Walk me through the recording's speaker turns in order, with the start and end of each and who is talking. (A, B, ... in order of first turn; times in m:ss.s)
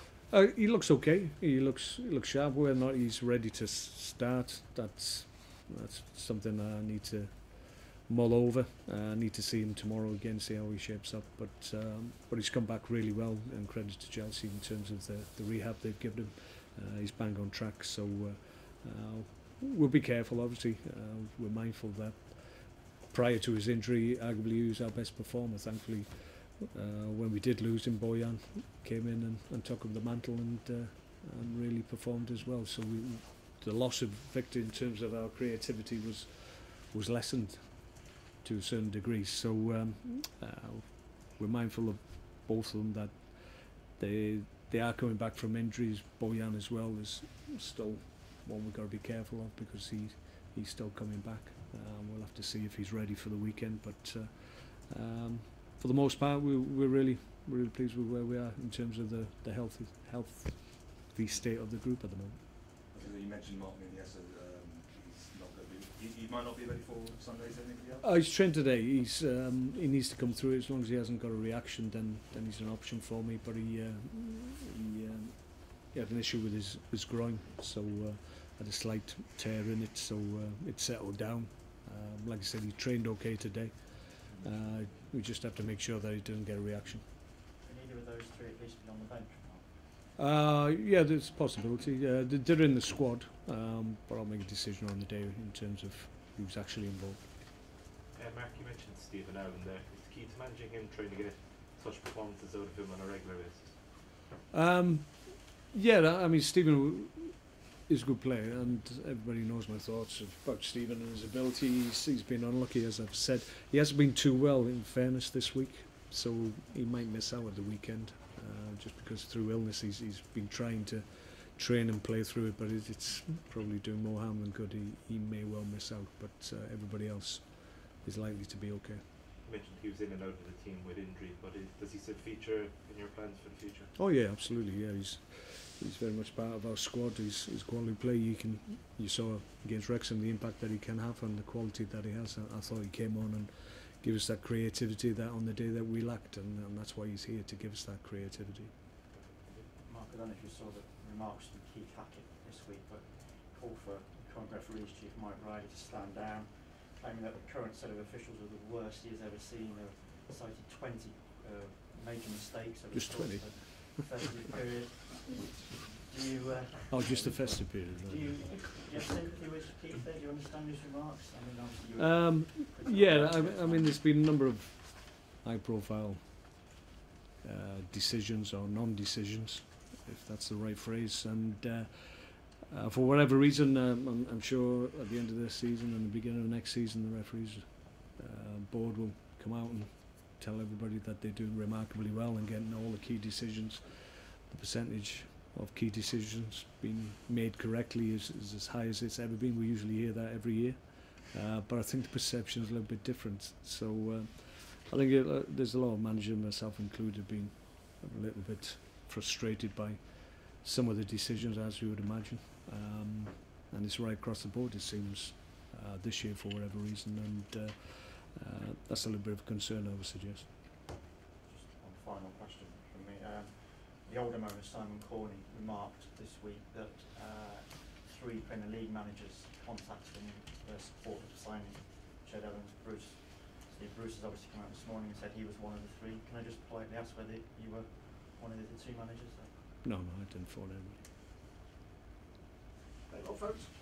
0:00.3-1:02.4 A
1:02.9-1:08.0 B
1:08.0-1:27.0 A
1:27.6-1:29.7 C
1:30.2-1:37.3 A
1:38.1-1:43.8 D
1:44.5-2:09.0 A
2:09.4-2:13.9 D
2:14.0-2:28.7 A
2:29.1-2:29.7 D
2:29.8-2:54.0 C
2:42.9-2:44.3 A
2:46.9-2:48.8 A
2:52.0-2:56.7 A
2:57.4-3:40.5 A
3:41.4-3:59.6 C
3:59.8-4:01.0 A
4:03.1-4:03.7 A